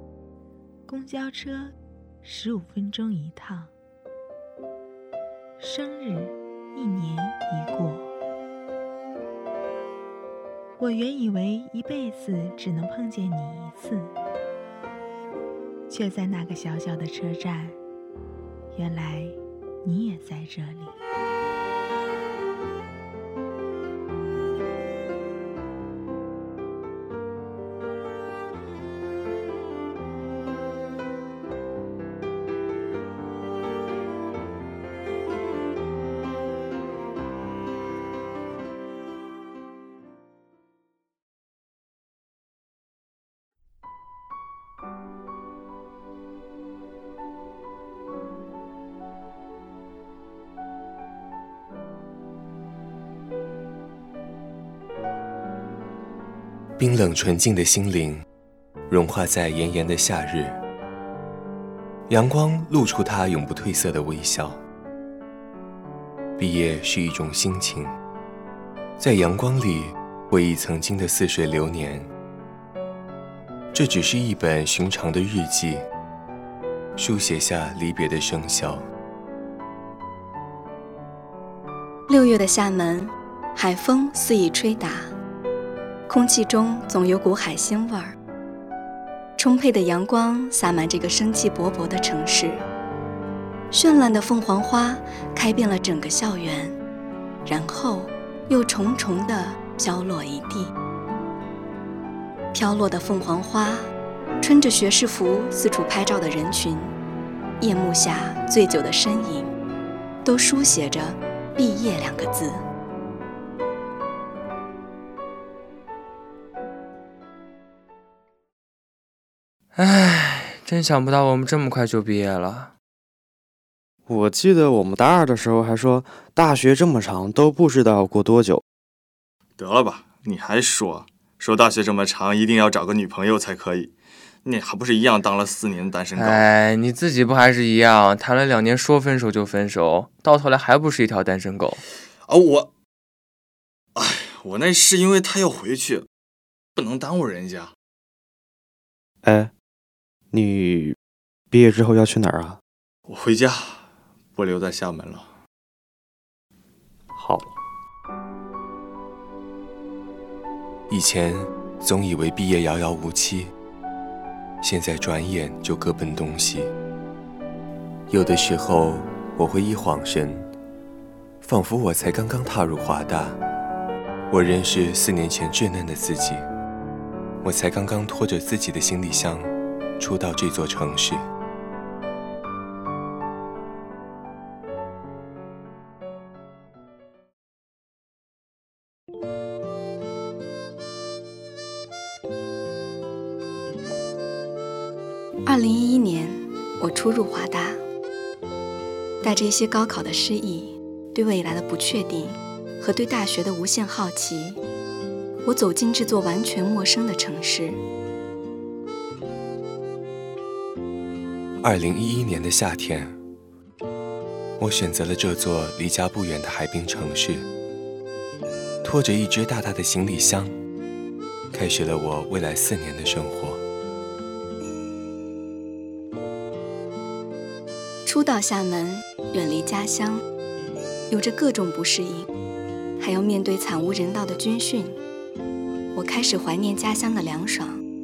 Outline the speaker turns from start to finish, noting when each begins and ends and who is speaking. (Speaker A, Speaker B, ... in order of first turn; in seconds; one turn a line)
Speaker A: 0.9-3.7
Speaker A: 5.6-8.1
Speaker A: 10.8-14.1
Speaker A: 15.9-17.8
Speaker A: 18.7-21.0
Speaker B: 56.8-58.2
Speaker B: 58.9-60.6
Speaker B: 62.1-64.6
Speaker B: 66.4-67.9
Speaker B: 69.0-72.1
Speaker B: 73.7-75.8
Speaker B: 77.0-78.8
Speaker C: 82.1-85.1
Speaker C: 86.1-88.2
Speaker C: 89.4-92.7
Speaker C: 93.7-96.8
Speaker C: 97.4-100.7
Speaker C: 102.5-106.9
Speaker C: 107.6-109.5
Speaker C: 110.2-112.6
Speaker D: 119.8-122.7
Speaker E: 124.1-128.6
Speaker F: 129.6-133.9
Speaker F: 134.4-136.5
Speaker D: 136.2-141.8
Speaker F: 142.3-142.7
Speaker F: 143.9-146.1
Speaker F: 146.8-147.7
Speaker E: 149.2-149.5
Speaker E: 150.3-150.9
Speaker E: 151.5-152.6
Speaker F: 153.1-155.3
Speaker E: 157.2-157.4
Speaker B: 160.9-163.5
Speaker B: 164.6-166.7
Speaker B: 168.1-170.5
Speaker B: 171.4-173.4
Speaker B: 174.3-176.4
Speaker B: 177.4-181.2
Speaker C: 195.4-197.8
Speaker C: 199.2-204.6
Speaker C: 205.4-207.8
Speaker B: 211.6-213.2
Speaker B: 214.6-217.4
Speaker B: 218.8-220.5
Speaker B: 221.5-223.6
Speaker C: 228.0-230.2
Speaker C: 231.1-232.3
Speaker C: 233.0-235.0
Speaker C: 235.9-237.8